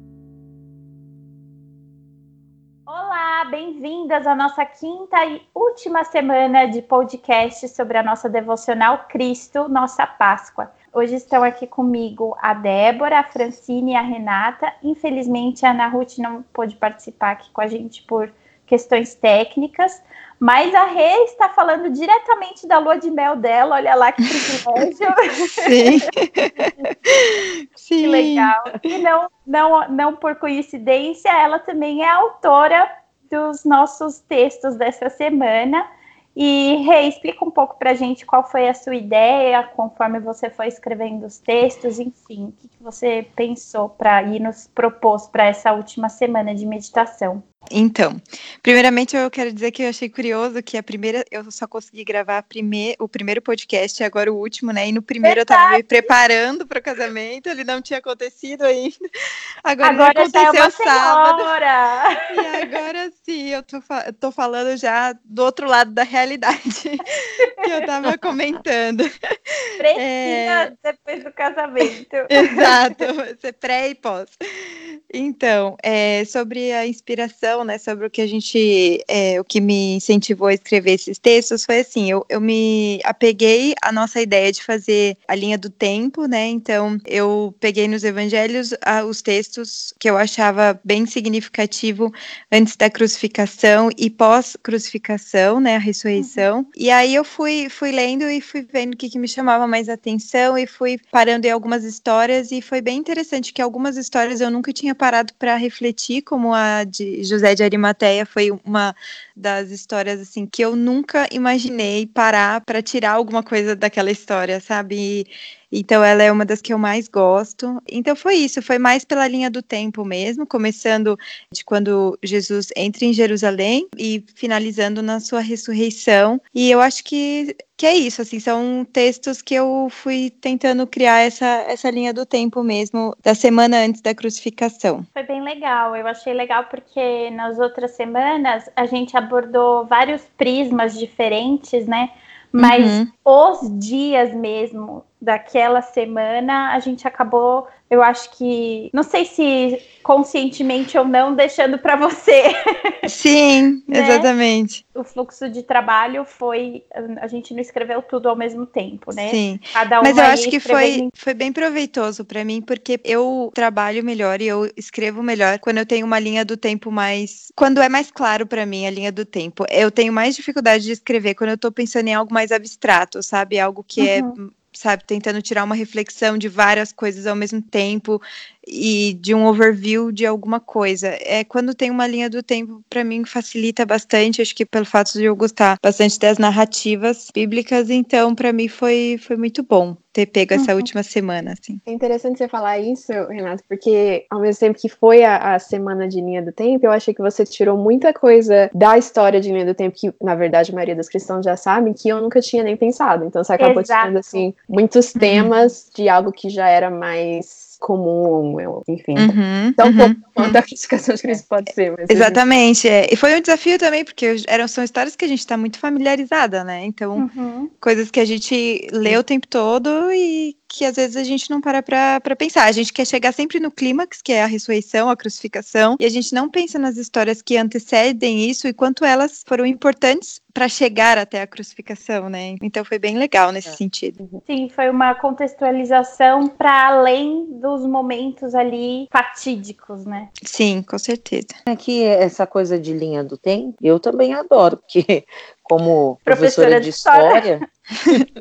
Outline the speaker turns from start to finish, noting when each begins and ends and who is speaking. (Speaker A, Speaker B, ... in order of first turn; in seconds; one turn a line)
Speaker A: 2.9-26.9
Speaker B: 25.6-28.5
Speaker A: 28.0-47.4
Speaker B: 47.7-59.0
Speaker A: 55.2-56.1
Speaker B: 59.6-61.5
Speaker A: 59.8-62.7
Speaker B: 62.3-70.7
Speaker A: 67.4-67.8
Speaker A: 69.8-72.8
Speaker B: 72.3-135.1
Speaker A: 96.2-96.5
Speaker A: 135.2-153.1
Speaker B: 142.6-143.1
Speaker B: 153.1-154.8
Speaker A: 153.9-154.3
Speaker A: 154.9-161.1
Speaker B: 159.2-191.8
Speaker A: 174.0-174.4
Speaker A: 190.6-190.9
Speaker C: 191.9-212.4
Speaker A: 203.6-204.5
Speaker B: 205.2-205.5
Speaker B: 209.2-210.6
Speaker B: 212.1-217.3
Speaker A: 217.2-217.7
Speaker B: 217.8-234.2
Speaker A: 234.5-240.3
Speaker B: 240.4-241.6
Speaker D: 241.7-247.6
Speaker A: 246.3-247.6
Speaker B: 248.0-248.3